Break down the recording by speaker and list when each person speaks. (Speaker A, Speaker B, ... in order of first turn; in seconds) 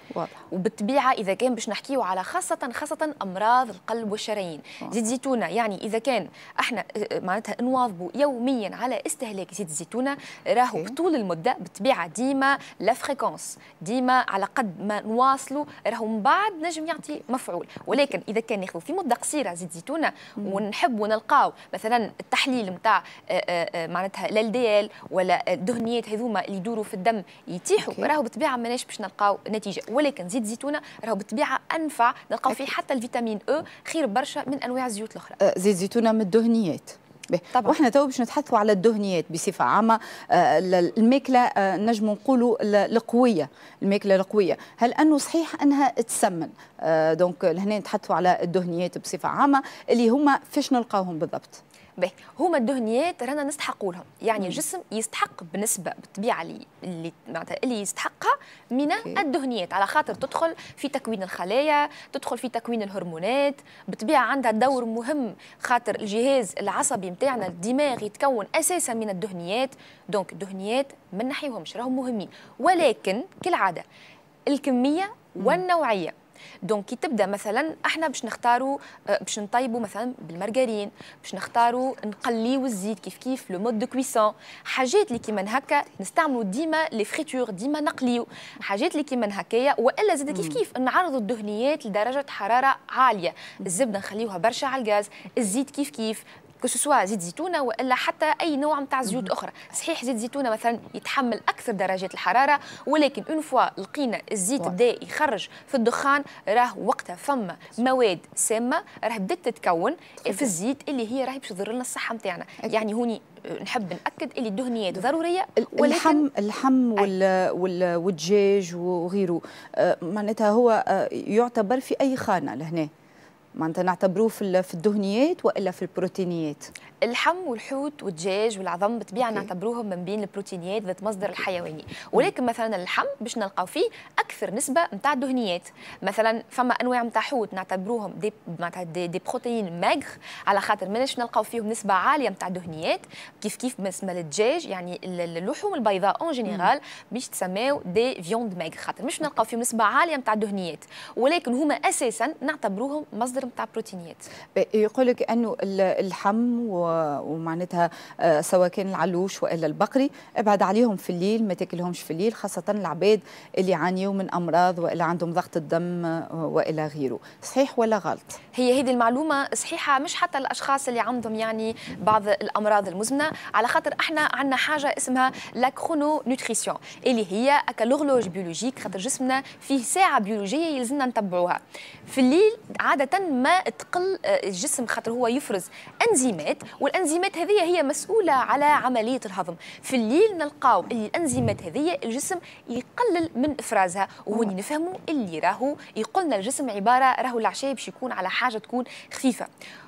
Speaker A: 0.1-0.4, 27.8-28.1, 35.4-51.6, 90.3-90.6, 110.2-110.5, 115.6-122.9, 123.5-126.7, 154.5-168.4
Speaker B: 0.5-35.4, 52.0-73.8, 74.5-76.1, 76.6-116.2, 127.0-154.2, 168.5-199.5